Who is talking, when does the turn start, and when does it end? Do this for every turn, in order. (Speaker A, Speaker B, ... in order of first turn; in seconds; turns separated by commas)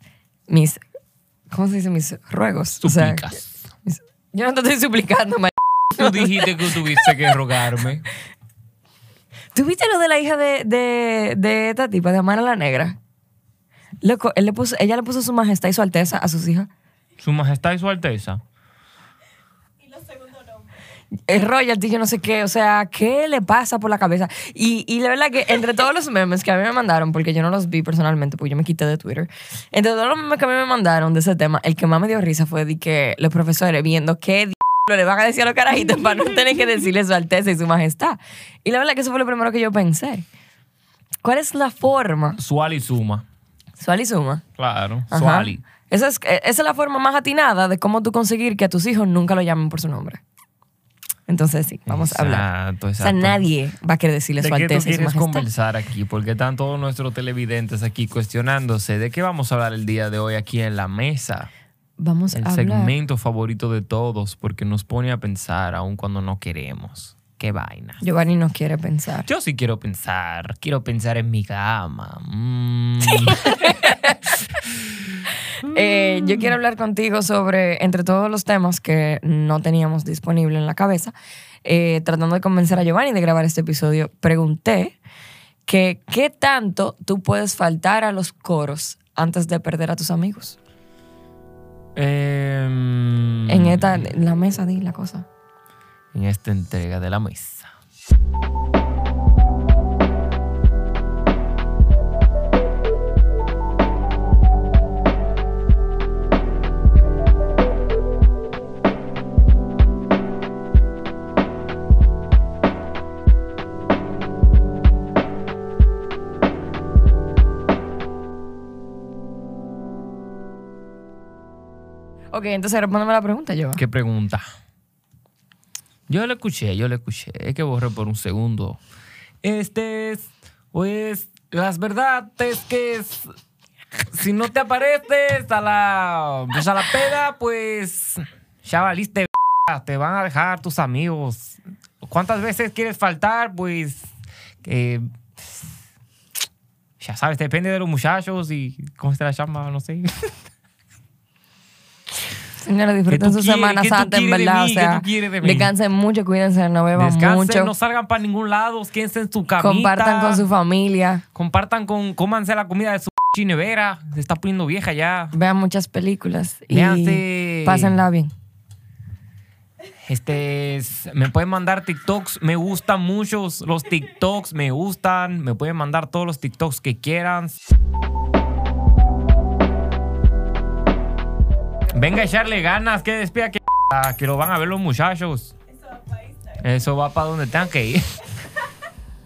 Speaker A: 0.5-0.8, Speaker A: 1.5-3.2, Speaker B: 2.8-3.5, Speaker A: 3.9-7.3, Speaker B: 5.9-8.0, Speaker A: 9.5-12.9, Speaker A: 14.0-16.7, Speaker B: 17.2-18.4, Speaker A: 21.3-40.3, Speaker A: 41.2-42.4, Speaker B: 42.4-43.2, Speaker A: 43.8-44.4, Speaker B: 44.6-45.6, Speaker A: 45.1-50.2, Speaker A: 51.3-52.5, Speaker B: 51.9-53.4, Speaker A: 53.0-55.5, Speaker B: 54.4-61.5, Speaker A: 62.0-62.9, Speaker B: 62.3-68.0, Speaker A: 68.0-69.3, Speaker B: 69.2-75.2, Speaker A: 73.2-74.1, Speaker A: 75.6-81.1, Speaker B: 75.8-76.5, Speaker A: 81.6-85.0, Speaker A: 85.7-90.6, Speaker B: 92.0-94.1, Speaker A: 93.5-95.2, Speaker B: 96.1-97.7, Speaker A: 122.3-123.8, Speaker B: 123.8-124.4, Speaker B: 126.1-128.8, Speaker B: 129.4-133.3, Speaker B: 134.1-144.1, Speaker B: 144.6-145.0, Speaker B: 147.0-150.1, Speaker A: 152.6-157.7, Speaker B: 153.1-155.7, Speaker B: 156.9-160.4, Speaker A: 159.6-161.2, Speaker B: 161.3-165.3, Speaker A: 165.3-168.3, Speaker B: 166.7-168.0, Speaker B: 170.1-177.6, Speaker B: 181.9-185.5, Speaker B: 186.5-188.0